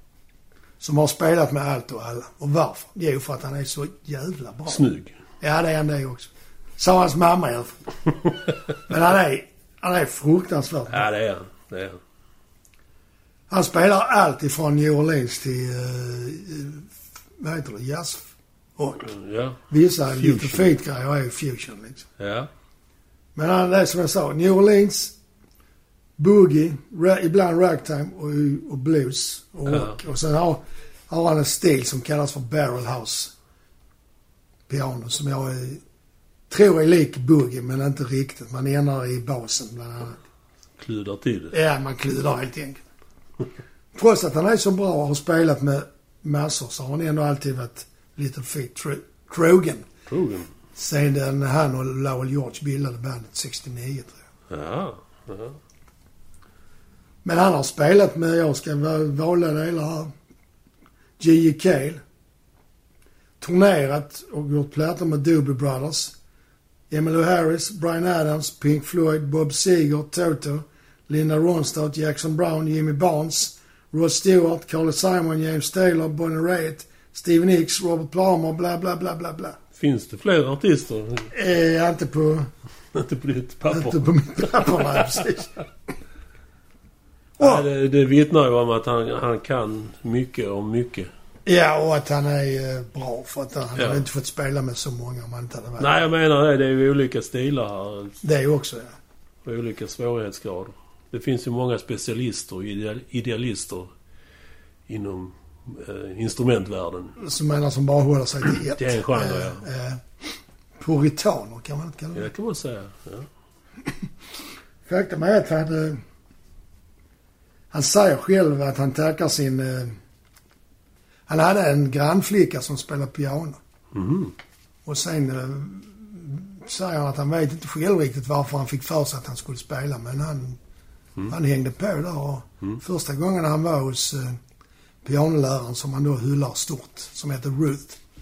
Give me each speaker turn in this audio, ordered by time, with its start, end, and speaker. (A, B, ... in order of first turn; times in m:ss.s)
0:00.8-0:04.8 A
0:04.7-0:05.2 B
0:05.4-0:07.8 A
0:08.9-0:11.0 A
0:10.9-0:12.0 B
0:13.5-0:16.9 A
0:17.4-0:19.1 A
0:19.0-0:20.7 B
0:19.7-0:22.1 A
0:22.2-0:22.5 B
0:23.4-0:25.1 A
0:26.2-0:33.3 A
0:29.7-0:30.0 B
0:34.7-0:35.8 A
0:36.5-0:40.2 A
0:40.8-0:41.5 B
0:41.5-0:42.8 A
0:43.9-0:49.9 A
0:50.1-0:50.5 B
0:50.8-0:54.2 A
0:54.5-0:55.6 B
0:57.2-1:00.1 A
1:01.2-1:02.0 A
1:03.4-1:06.2 A
1:06.9-1:19.6 A
1:19.8-1:21.3 B
1:21.3-1:22.5 A
1:22.9-1:25.2 B
1:23.7-1:25.6 A
1:27.4-1:31.1 B
1:27.4-1:27.6 A
1:31.5-1:36.0 A
1:33.8-1:34.0 B
1:35.8-1:38.2 B
1:38.2-1:39.0 A
1:39.4-1:43.9 B
1:44.9-1:47.2 B
1:47.2-1:52.3 A
1:48.8-1:49.6 B
1:52.2-1:53.3 B
1:54.9-1:56.0 A
1:57.7-2:00.0 A
2:01.3-2:03.6 A
2:03.9-2:04.4 B
2:04.9-2:10.6 A
2:11.3-2:14.4 A
2:15.0-2:18.0 A